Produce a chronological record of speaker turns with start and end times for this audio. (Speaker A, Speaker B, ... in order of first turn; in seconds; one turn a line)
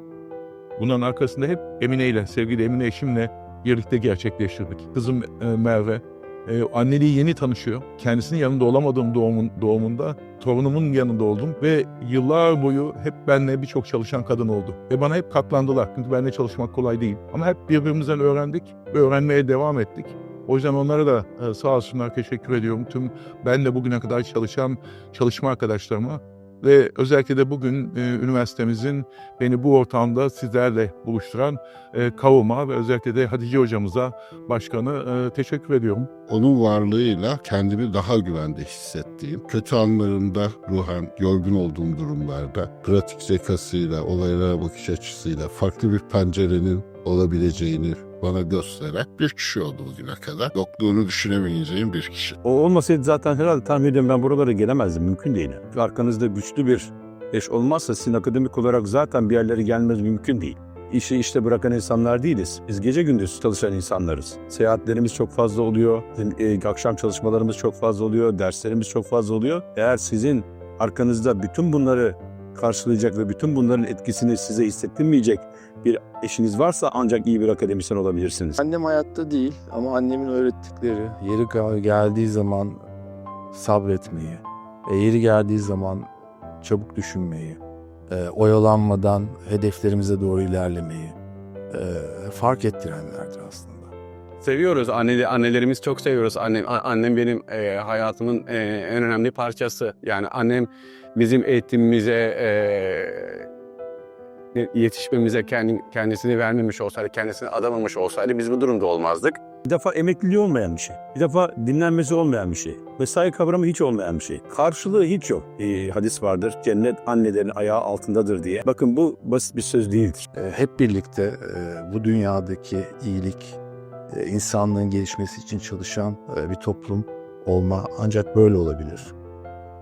Speaker A: 0.8-36.1
Speaker B: 36.3-52.4
Speaker C: 52.4-78.6
Speaker D: 78.6-82.8
Speaker D: 83.5-86.1
Speaker D: 86.6-91.2
Speaker D: 91.7-93.9
Speaker E: 94.4-103.5
Speaker E: 104.5-109.4
Speaker C: 109.6-120.3
Speaker D: 120.3-123.6
Speaker D: 124.1-129.1